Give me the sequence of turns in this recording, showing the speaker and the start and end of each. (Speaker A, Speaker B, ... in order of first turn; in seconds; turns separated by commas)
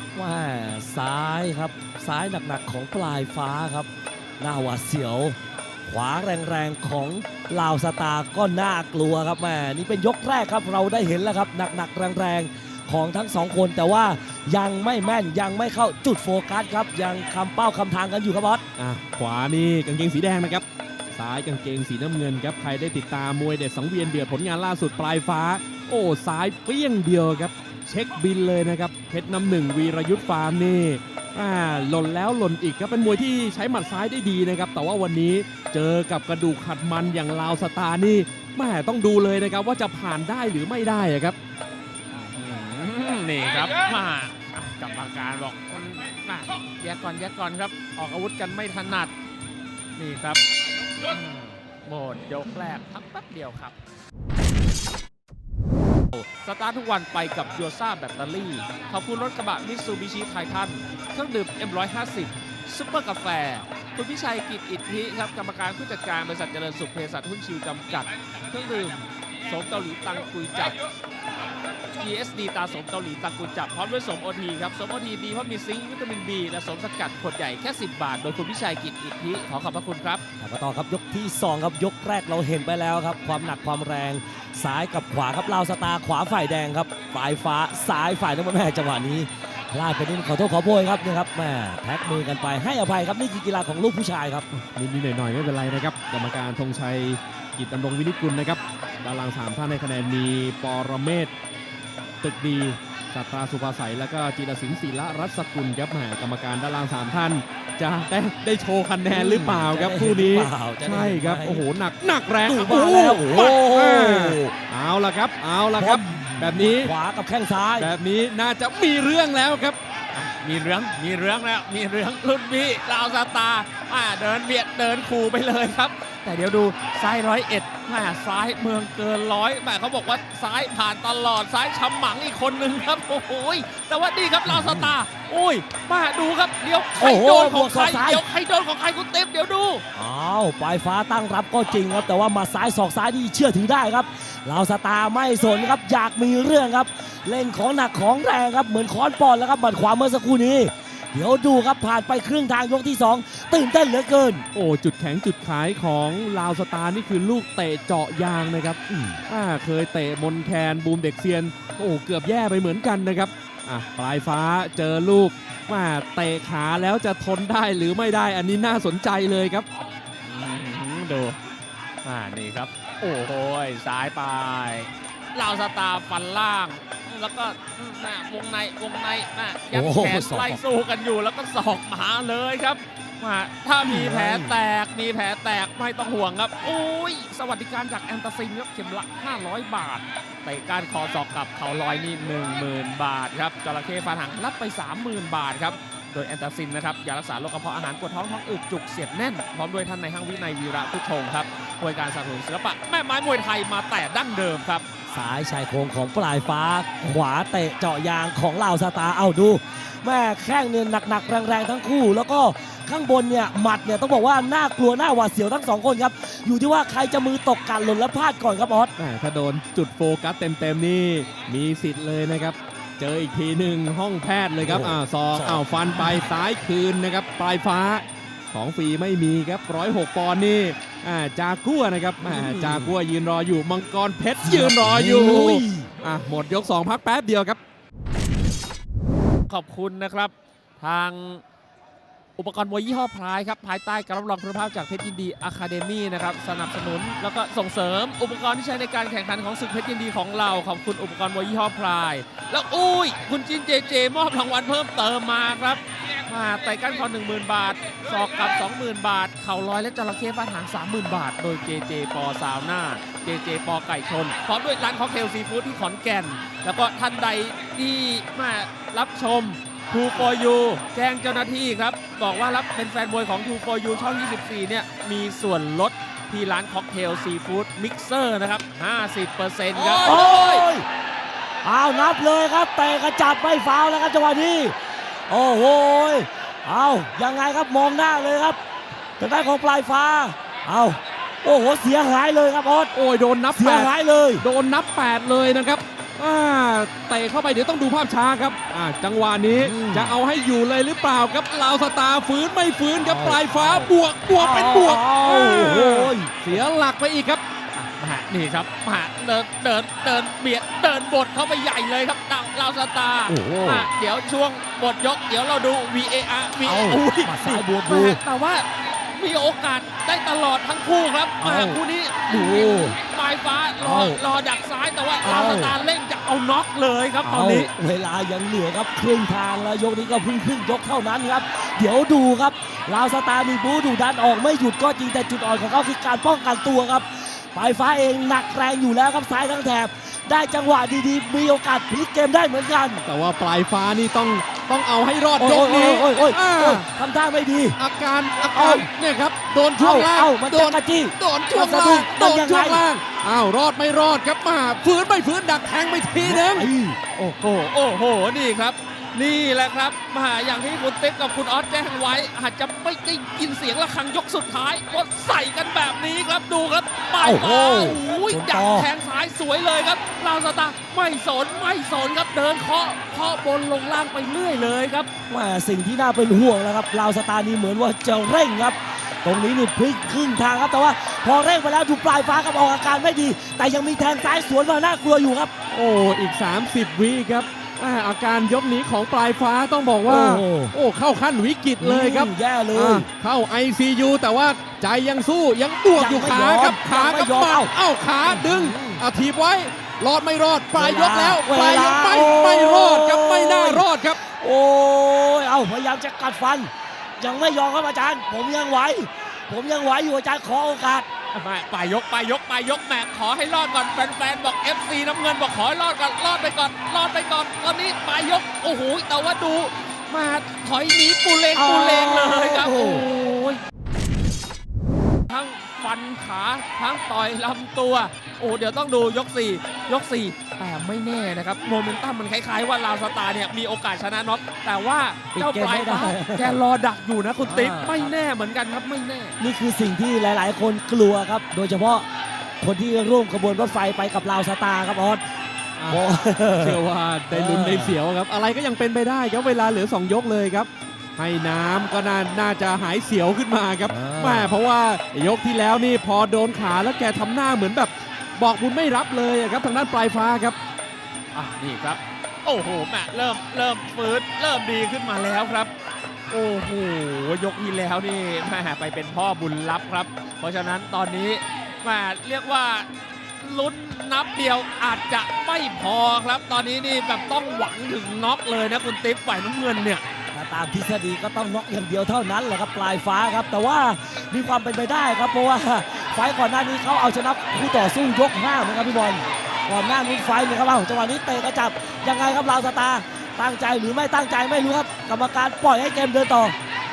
Speaker A: 0.1-3.9, Speaker A: 4.4-18.6, Speaker B: 18.8-41.4, Speaker C: 42.1-49.1, Speaker C: 50.0-50.4, Speaker C: 51.1-53.8, Speaker C: 56.1-70.8, Speaker C: 72.0-80.2, Speaker A: 80.4-94.5, Speaker B: 94.5-101.3, Speaker B: 102.2-116.9, Speaker A: 109.1-111.6, Speaker A: 112.5-114.5, Speaker A: 115.8-117.9, Speaker B: 117.8-119.8, Speaker C: 120.1-139.8, Speaker A: 134.5-134.9, Speaker A: 137.0-138.2, Speaker A: 139.9-154.5, Speaker B: 154.5-169.7, Speaker A: 158.9-159.2, Speaker C: 170.2-171.4, Speaker C: 172.0-204.8, Speaker A: 179.7-180.6, Speaker A: 183.8-184.6, Speaker A: 205.1-218.9, Speaker B: 219.0-237.6, Speaker A: 224.6-226.2, Speaker A: 232.2-232.9, Speaker A: 234.4-235.9, Speaker C: 239.5-241.4, Speaker C: 242.4-280.6, Speaker A: 279.7-280.9, Speaker A: 281.6-284.8, Speaker A: 285.3-288.6, Speaker A: 289.2-292.9, Speaker B: 292.9-307.4, Speaker A: 293.5-294.4, Speaker A: 299.5-300.2, Speaker A: 303.0-306.6, Speaker C: 307.8-327.7, Speaker A: 313.3-313.9, Speaker A: 316.6-318.2, Speaker A: 321.4-323.0, Speaker A: 323.8-324.2, Speaker A: 325.2-325.8, Speaker A: 327.2-343.1, Speaker B: 343.1-346.9, Speaker A: 345.4-347.8, Speaker B: 347.8-356.7, Speaker A: 348.5-348.9, Speaker A: 349.8-352.8, Speaker A: 356.2-357.0, Speaker C: 357.1-375.1, Speaker A: 367.2-368.9, Speaker A: 375.3-385.5, Speaker B: 385.7-404.2, Speaker A: 390.1-390.8, Speaker A: 391.8-393.1, Speaker A: 396.0-397.7, Speaker A: 398.3-399.0, Speaker A: 400.7-411.1, Speaker C: 411.3-423.6, Speaker A: 421.6-423.1, Speaker C: 425.3-439.4, Speaker A: 435.3-436.6, Speaker A: 437.4-438.1, Speaker A: 439.4-442.1, Speaker A: 442.6-445.2, Speaker A: 445.9-448.0, Speaker B: 446.6-460.6, Speaker A: 453.9-454.6, Speaker C: 461.3-465.7, Speaker C: 466.3-480.0, Speaker A: 480.3-496.6